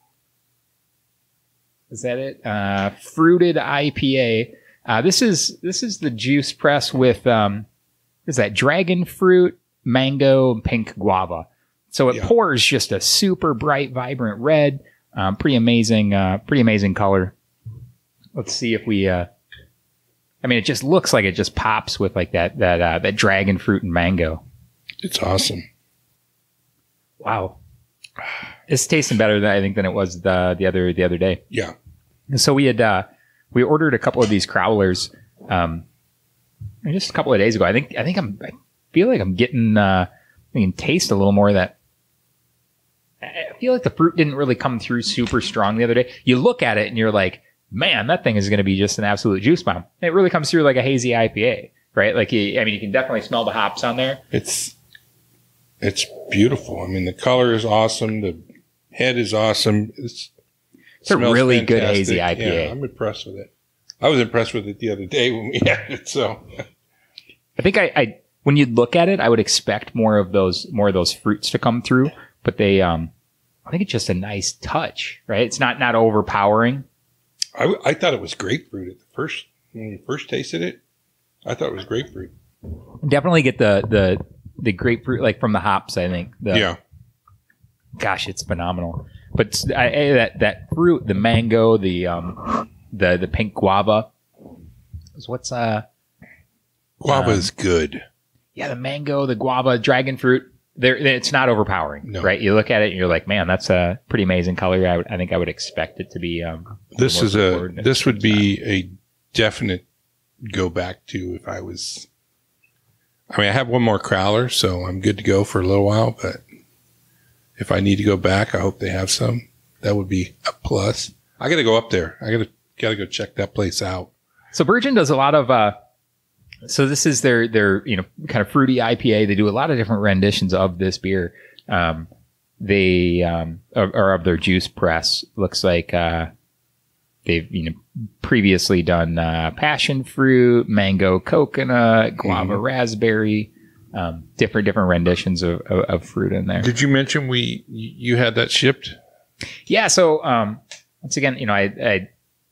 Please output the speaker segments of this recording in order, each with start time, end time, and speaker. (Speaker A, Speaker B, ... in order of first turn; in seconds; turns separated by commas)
Speaker A: 1.9-7.7, Speaker A: 8.3-17.3, Speaker A: 18.4-19.3, Speaker A: 20.4-24.4, Speaker B: 25.0-25.7, Speaker A: 27.2-27.6, Speaker A: 28.7-31.4, Speaker A: 32.3-35.9, Speaker A: 36.8-41.8, Speaker A: 43.2-54.2, Speaker B: 54.3-54.8, Speaker B: 55.8-58.4, Speaker B: 58.9-60.3, Speaker A: 61.0-62.7, Speaker B: 61.1-66.7, Speaker A: 67.6-73.1, Speaker A: 73.7-76.8, Speaker B: 77.6-80.8, Speaker B: 81.4-82.3, Speaker A: 83.0-86.7, Speaker B: 86.5-86.8, Speaker A: 88.0-94.1, Speaker A: 95.2-95.8, Speaker B: 97.0-98.0, Speaker A: 97.1-97.5, Speaker A: 98.6-108.5, Speaker B: 102.0-102.3, Speaker B: 106.9-109.8, Speaker B: 110.4-112.1, Speaker B: 113.3-116.4, Speaker B: 117.6-124.1, Speaker A: 124.5-125.8, Speaker A: 126.7-132.1, Speaker A: 132.6-136.3, Speaker A: 137.2-146.7, Speaker B: 142.3-142.6, Speaker B: 146.6-149.0, Speaker A: 149.7-152.1